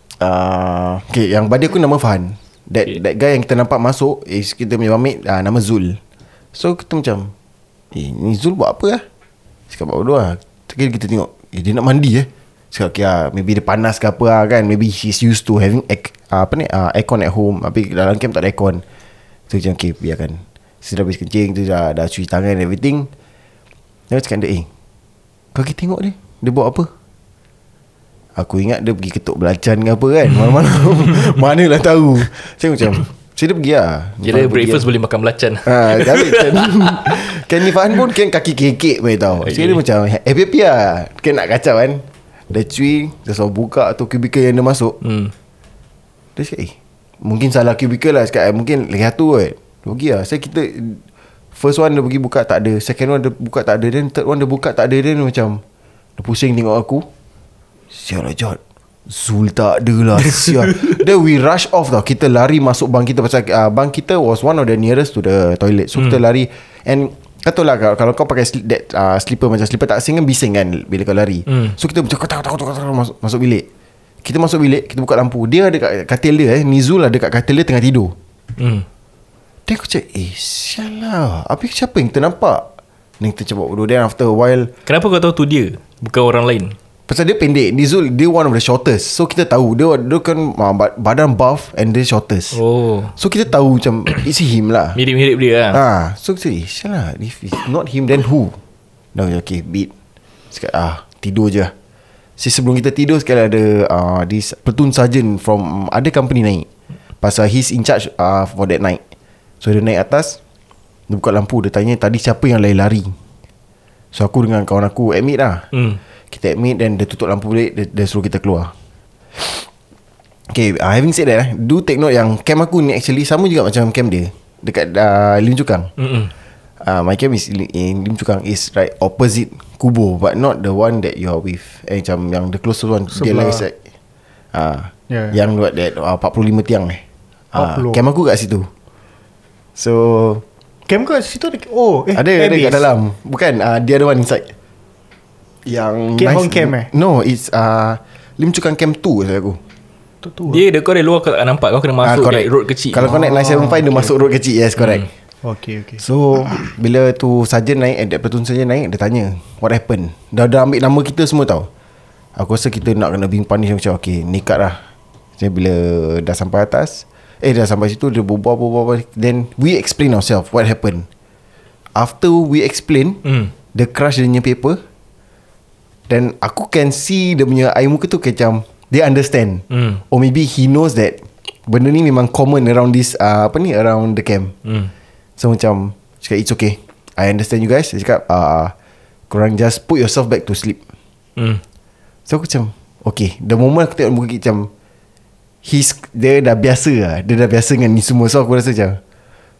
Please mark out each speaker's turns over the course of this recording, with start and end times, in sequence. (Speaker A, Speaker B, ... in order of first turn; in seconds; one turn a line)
Speaker A: 0.2-6.0
Speaker A: 6.5-7.3
Speaker A: 7.9-9.0
Speaker A: 9.7-18.8
Speaker A: 19.5-23.1
Speaker A: 24.1-24.7
Speaker A: 25.5-26.9
Speaker A: 28.4-34.9
Speaker B: 30.5-31.3
Speaker B: 34.2-37.2
Speaker A: 35.6-45.0
Speaker B: 39.4-39.8
Speaker B: 45.0-45.3
Speaker A: 46.4-51.0
Speaker A: 51.5-55.6
Speaker A: 56.2-57.1
Speaker A: 57.9-73.7
Speaker B: 71.5-71.7
Speaker A: 74.2-78.1
Speaker B: 78.6-78.8
Speaker A: 79.7-82.7
Speaker A: 83.2-84.7
Speaker B: 84.8-86.8
Speaker A: 87.1-92.6
Speaker B: 92.5-93.1
Speaker A: 93.2-95.0
Speaker B: 94.9-95.8
Speaker A: 95.7-98.6
Speaker A: 99.1-99.9
Speaker A: 100.5-101.7
Speaker A: 102.4-106.7
Speaker A: 107.2-109.0
Speaker A: 109.6-110.4
Speaker A: 111.1-113.1
Speaker A: 114.1-115.6
Speaker B: 115.7-116.0
Speaker A: 116.3-118.7
Speaker A: 119.3-119.7
Speaker A: 120.5-125.9
Speaker B: 126.0-126.3
Speaker A: 126.8-133.7
Speaker C: 133.1-133.6
Speaker A: 134.5-137.0
Speaker A: 137.5-138.7
Speaker C: 137.5-138.0
Speaker A: 139.8-140.4
Speaker C: 140.9-142.9
Speaker A: 142.1-144.5
Speaker A: 145.7-149.6
Speaker C: 146.2-146.9
Speaker C: 150.2-150.6
Speaker B: 150.5-153.1
Speaker A: 152.0-155.1
Speaker C: 153.0-154.1
Speaker B: 154.8-155.1
Speaker C: 155.4-156.7
Speaker A: 156.0-161.7
Speaker A: 162.3-164.8
Speaker A: 165.4-171.1
Speaker A: 171.9-173.2
Speaker B: 173.2-173.5
Speaker A: 173.7-174.8
Speaker A: 176.1-184.5
Speaker B: 179.7-180.0
Speaker A: 185.4-188.7
Speaker A: 189.3-190.8
Speaker B: 191.4-191.6
Speaker A: 192.3-194.7
Speaker A: 195.6-199.0